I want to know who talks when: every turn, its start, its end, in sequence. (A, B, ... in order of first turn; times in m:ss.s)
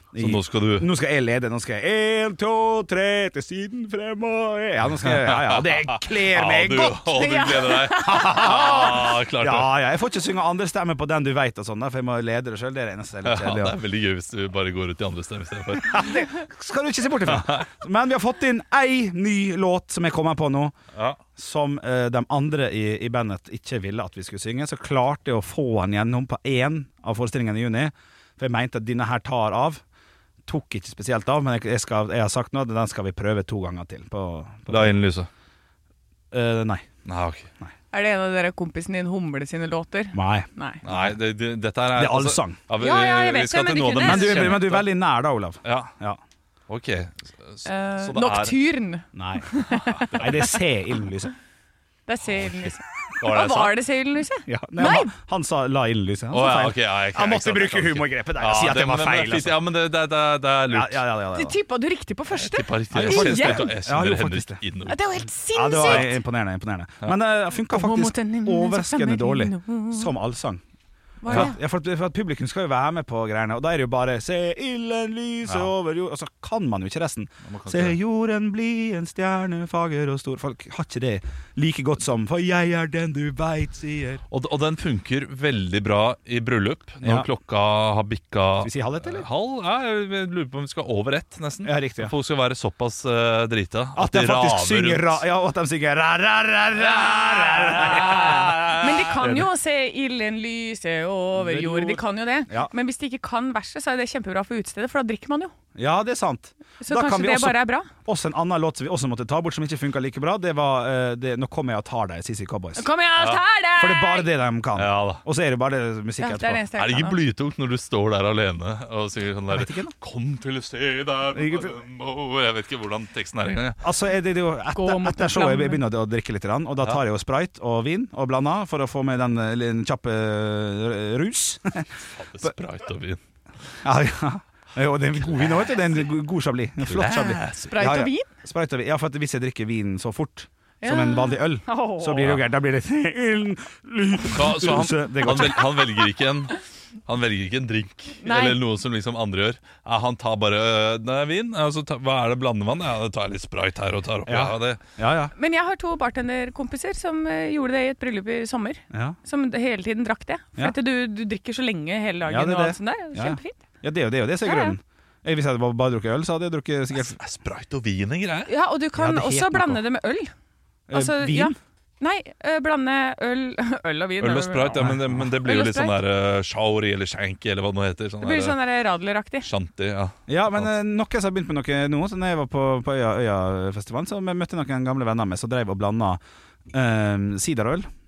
0:00.1-0:07.4 A
0:00.2-0:00.9 B
0:04.9-0:09.7 B
0:07.1-0:08.9 C
0:08.0-0:13.8 A
0:13.2-0:16.2 B
0:15.8-0:20.8 A
0:17.3-0:17.6 B
0:21.4-0:29.8 A
0:30.4-0:35.0 A
0:34.7-0:35.3 B
0:36.3-0:36.9 A
0:37.0-0:37.5 B
0:37.9-0:40.8 C
0:40.1-0:41.2 A
0:40.8-0:44.9 B
0:41.9-0:42.6 A
0:42.8-0:44.7 C
0:44.0-0:46.2 A
0:45.6-0:45.9 B
0:46.7-0:48.6 B
0:47.6-0:50.4 C
0:49.1-0:49.4 A
0:49.7-0:50.2 B
0:50.1-0:51.3 A
0:52.1-0:55.1 C
0:53.2-0:53.8 B
0:54.5-0:59.6 A
0:56.3-1:01.1 B
1:00.7-1:01.6 A
1:01.3-1:03.7 C
1:02.3-1:05.0 B
1:02.9-1:04.6 A
1:04.8-1:06.2 C
1:05.5-1:10.6 A
1:05.8-1:06.1 B
1:07.7-1:10.1 C
1:11.2-1:11.6 C
1:11.3-1:24.2 A
1:15.4-1:15.7 B
1:17.4-1:18.0 B
1:24.3-1:35.2 B
1:27.0-1:27.3 A
1:28.6-1:29.2 A
1:31.6-1:32.1 A
1:33.9-1:38.6 A
1:36.8-1:39.2 B
1:38.8-1:45.5 C
1:41.4-1:42.7 A
1:45.8-1:52.9 A
1:46.8-1:47.9 C
1:52.8-1:54.3 C
1:53.2-1:53.4 B
1:53.8-1:56.6 A
1:54.8-1:55.2 B
1:56.2-1:57.2 C
1:56.7-2:03.8 B
1:59.5-1:59.9 A
2:01.3-2:01.8 A
2:03.8-2:11.9 A
2:04.7-2:05.8 C
2:12.2-2:13.2 B
2:13.8-2:25.8 A
2:16.8-2:18.0 B
2:17.6-2:18.3 C
2:20.8-2:22.3 C
2:24.3-2:34.8 B
2:28.2-2:28.6 C
2:34.2-2:35.3 A
2:35.3-2:43.6 C
2:38.9-2:39.2 A
2:42.3-2:47.2 A
2:44.4-2:44.8 C
2:46.9-2:48.5 B
2:48.5-2:50.3 C
2:49.0-2:49.8 A
2:50.9-2:51.6 A
2:50.9-2:55.9 C
2:54.2-2:58.6 B
2:54.8-2:55.3 A
2:58.2-2:59.5 C
2:59.4-3:00.7 B
3:00.3-3:06.2 A
3:06.7-3:07.9 A